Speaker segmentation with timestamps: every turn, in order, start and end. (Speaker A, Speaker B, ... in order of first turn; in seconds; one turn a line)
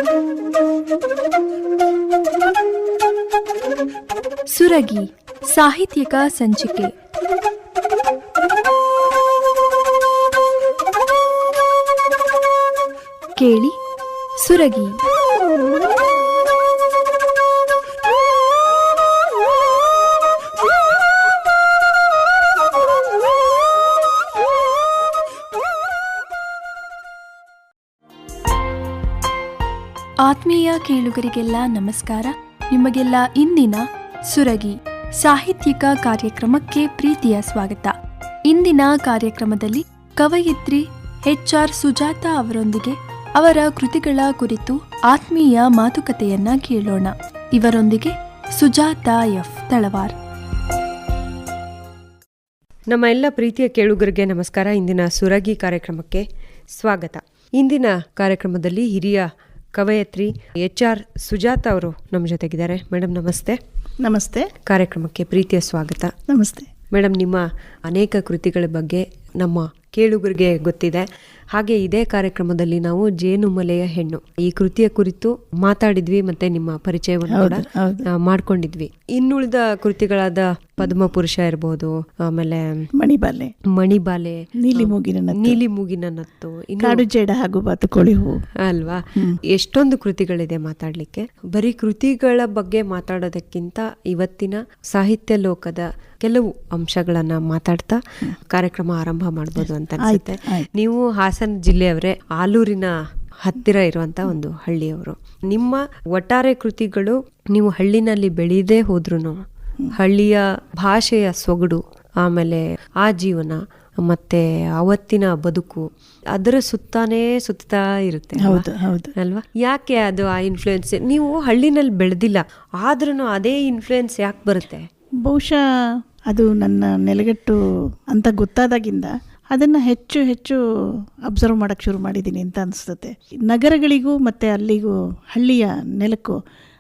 Speaker A: 4.5-6.9
Speaker A: 13.4-13.8
Speaker A: 14.4-15.0
Speaker A: 30.2-38.0
Speaker A: 38.5-50.2
Speaker B: 52.9-63.6
Speaker C: 64.0-64.5
Speaker B: 64.7-66.1
Speaker C: 66.3-66.7
Speaker B: 66.9-82.8
Speaker C: 77.3-78.1
Speaker C: 83.0-83.5
Speaker B: 83.7-87.0
Speaker C: 84.6-85.6
Speaker C: 86.8-88.4
Speaker B: 88.6-109.4
Speaker C: 100.0-100.7
Speaker B: 109.9-124.8
Speaker C: 118.4-119.1
Speaker C: 125.2-125.6
Speaker C: 126.3-136.4